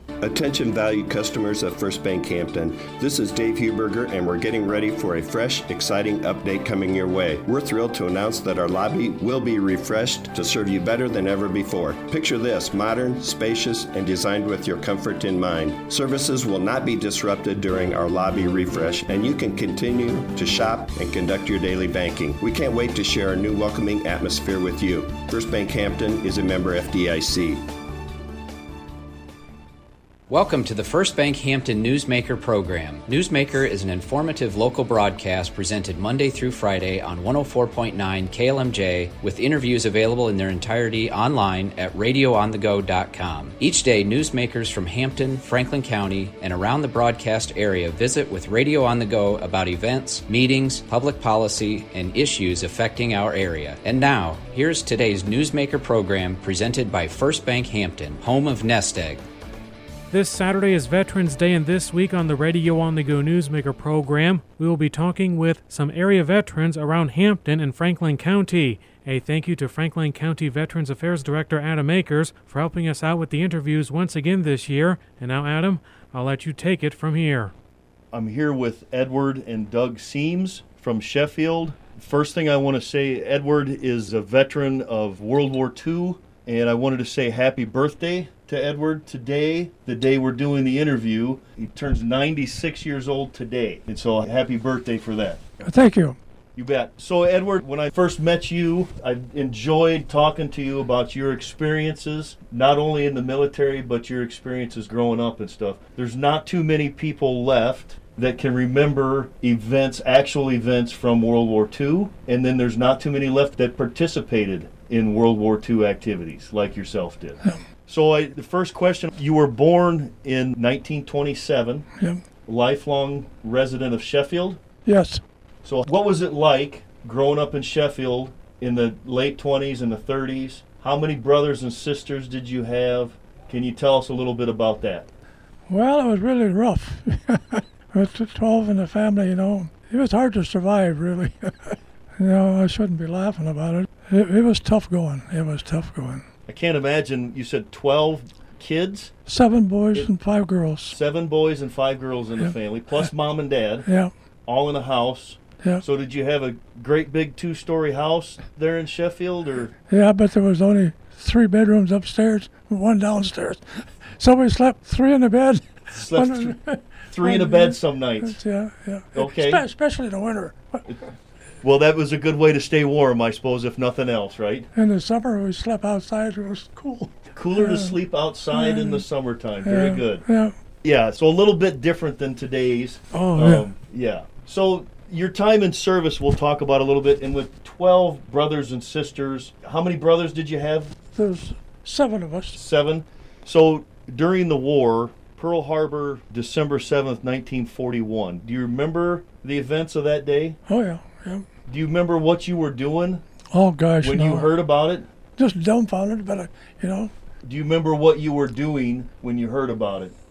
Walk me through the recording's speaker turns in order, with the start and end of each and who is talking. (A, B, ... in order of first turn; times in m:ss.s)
0:00.2-0:27.7 A
0:30.3-0:59.2 B
1:00.1-1:17.5 C
1:18.1-1:35.4 D
1:35.6-1:36.2 E
1:36.6-2:01.8 D
2:02.4-2:04.6 D
2:04.8-2:05.2 E
2:05.6-2:15.1 D
2:15.7-2:26.2 E
2:26.5-2:29.1 D
2:29.3-2:31.0 E
2:30.9-2:33.9 D
2:33.8-2:34.1 E
2:34.4-2:39.7 D
2:39.9-2:50.8 E
2:45.9-2:48.4 D
2:49.1-2:49.6 D
2:51.6-2:54.7 D
2:54.7-2:58.0 E
2:57.3-3:00.2 D
2:58.5-2:59.0 E
2:59.6-3:00.5 E
3:00.8-3:10.9 D
3:03.1-3:03.6 E
3:11.1-3:12.6 E
3:12.5-3:20.6 D
3:20.7-3:21.4 E
3:21.7-3:23.2 D
3:23.5-3:24.5 E
3:24.0-3:25.1 D
3:25.4-3:27.1 E
3:27.4-3:30.1 D